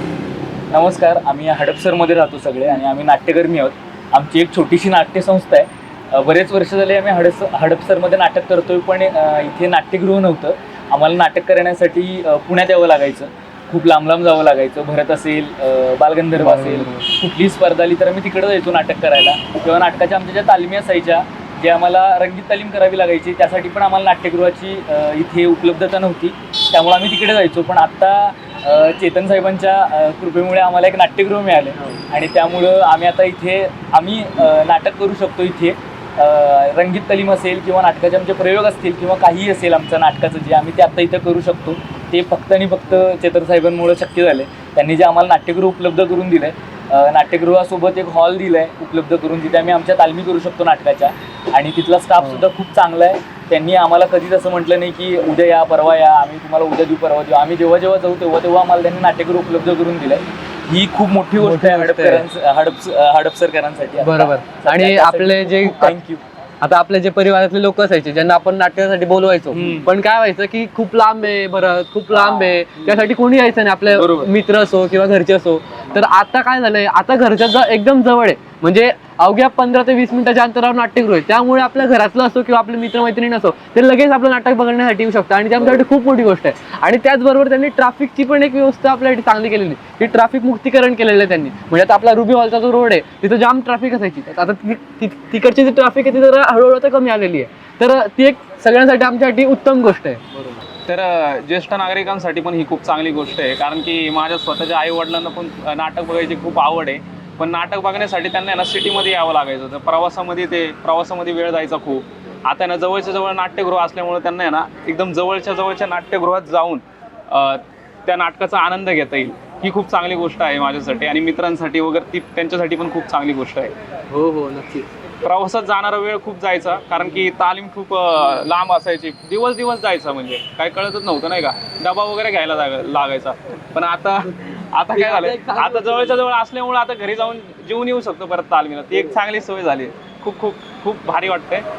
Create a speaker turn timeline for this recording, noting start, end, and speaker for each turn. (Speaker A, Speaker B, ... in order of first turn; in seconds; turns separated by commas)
Speaker A: 0.7-66.2, Speaker B: 16.3-17.0, Speaker B: 52.2-52.5, Speaker B: 61.4-62.2, Speaker B: 64.0-66.0, Speaker B: 66.6-100.5, Speaker C: 72.3-72.5, Speaker C: 73.9-74.3, Speaker C: 100.9-123.7, Speaker B: 124.1-124.9, Speaker C: 125.2-141.7, Speaker B: 134.9-136.0